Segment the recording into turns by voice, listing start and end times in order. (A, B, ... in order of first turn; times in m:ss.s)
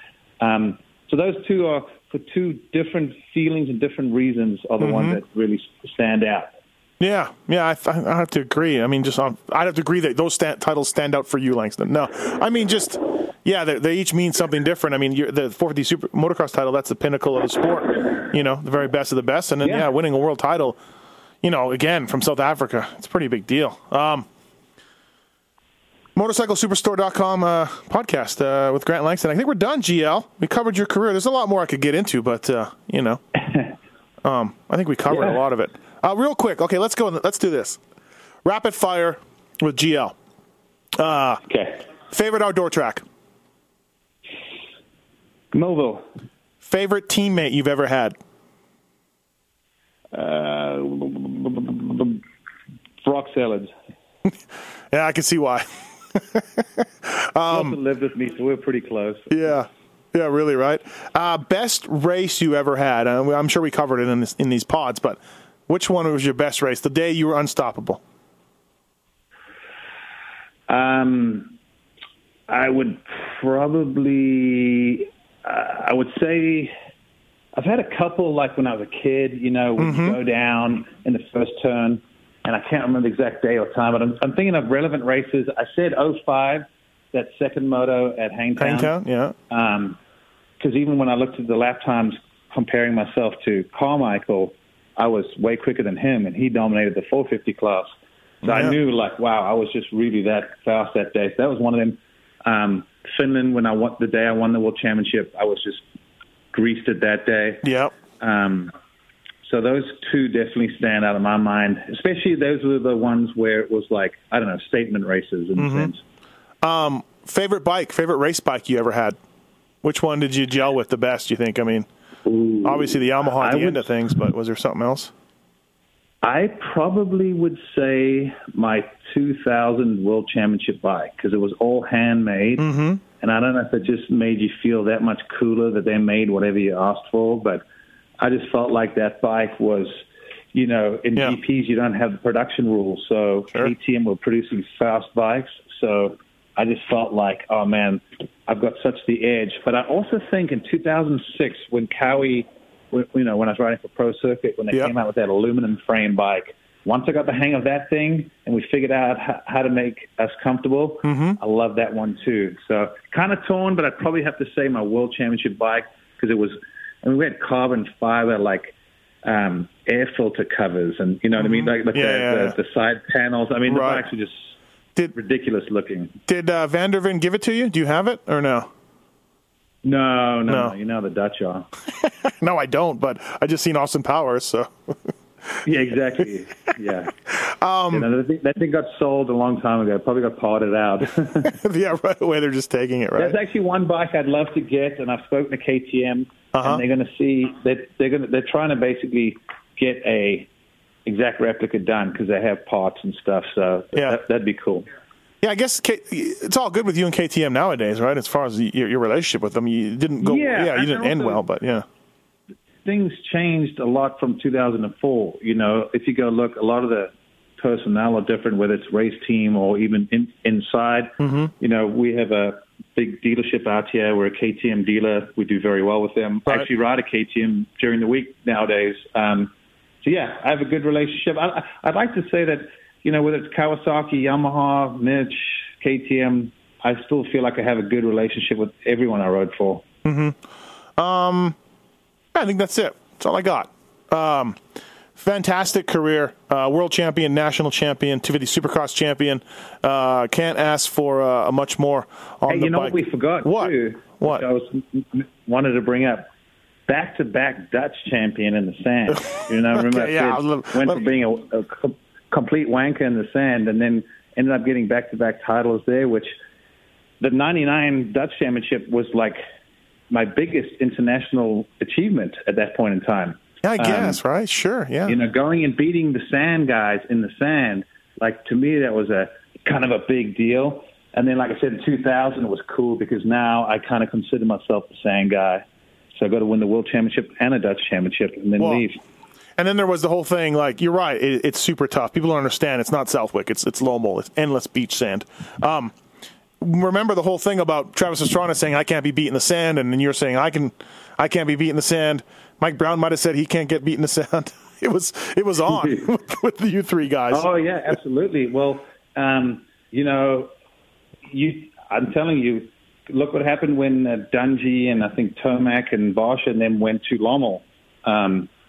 0:00.4-0:06.6 A
0:04.8-0:05.2 B
0:07.0-0:20.8 B
0:19.6-0:19.9 A
0:21.4-0:24.3 B
0:26.2-0:33.2 B
0:34.2-0:37.8 B
0:35.1-0:35.4 A
0:38.4-0:40.2 B
0:41.0-0:41.4 B
0:41.5-0:41.8 A
0:42.1-0:43.0 B
0:45.5-0:46.0 A
0:46.6-0:48.2 B
0:50.1-0:52.2 A
0:53.0-0:53.7 A
0:54.9-0:57.8 B
0:57.5-0:59.5 A
0:59.3-1:08.0 B
1:10.7-1:11.5 A
1:12.5-1:16.7 A
1:17.6-1:29.0 A
1:19.8-1:20.2 B
1:28.6-1:29.4 B
1:29.5-1:30.0 A
1:30.6-1:37.9 A
1:38.4-1:45.8 A
1:38.4-1:38.8 B
1:46.5-1:47.6 A
1:47.6-1:47.9 B
1:48.2-1:48.7 A
1:49.4-1:56.0 A
1:55.6-1:55.9 B
1:56.6-1:59.2 B
1:59.8-2:01.9 B
2:02.3-2:02.6 A
2:02.6-2:05.1 B
2:03.3-2:03.9 A
2:06.2-2:12.6 A
2:12.6-2:13.0 B
2:13.2-2:17.6 A
2:18.2-2:20.0 A
2:20.5-2:48.7 A
2:41.0-2:41.4 B
2:49.2-2:54.6 A
2:51.4-2:52.6 B
2:53.7-2:54.1 B
2:55.1-2:56.2 A
2:56.3-2:58.7 B
2:59.8-3:01.7 A
3:00.5-3:00.8 B
3:02.0-3:05.5 B
3:05.6-3:07.1 A
3:07.3-3:08.1 B
3:07.9-3:11.5 A
3:11.4-3:13.4 B
3:13.2-3:20.5 A
3:16.5-3:16.8 B
3:21.1-3:24.9 A
3:25.4-3:31.8 B
3:30.2-3:31.4 A
3:32.8-3:49.5 A
3:41.2-3:41.5 B
3:50.0-3:59.8 A
4:00.0-4:00.4 B
4:01.0-4:01.6 B
4:02.3-4:04.6 B
4:05.2-4:14.4 B
4:12.5-4:16.3 A
4:16.9-4:26.3 A
4:19.7-4:21.0 B
4:27.2-4:29.4 A
4:30.1-4:34.2 A
4:33.6-4:35.2 B
4:35.1-4:45.6 A
4:46.2-4:49.0 A
4:48.6-4:48.8 B
4:49.6-4:55.9 B
4:56.6-5:07.5 B
5:05.7-5:06.1 A
5:07.3-5:10.5 A
5:11.3-5:18.5 A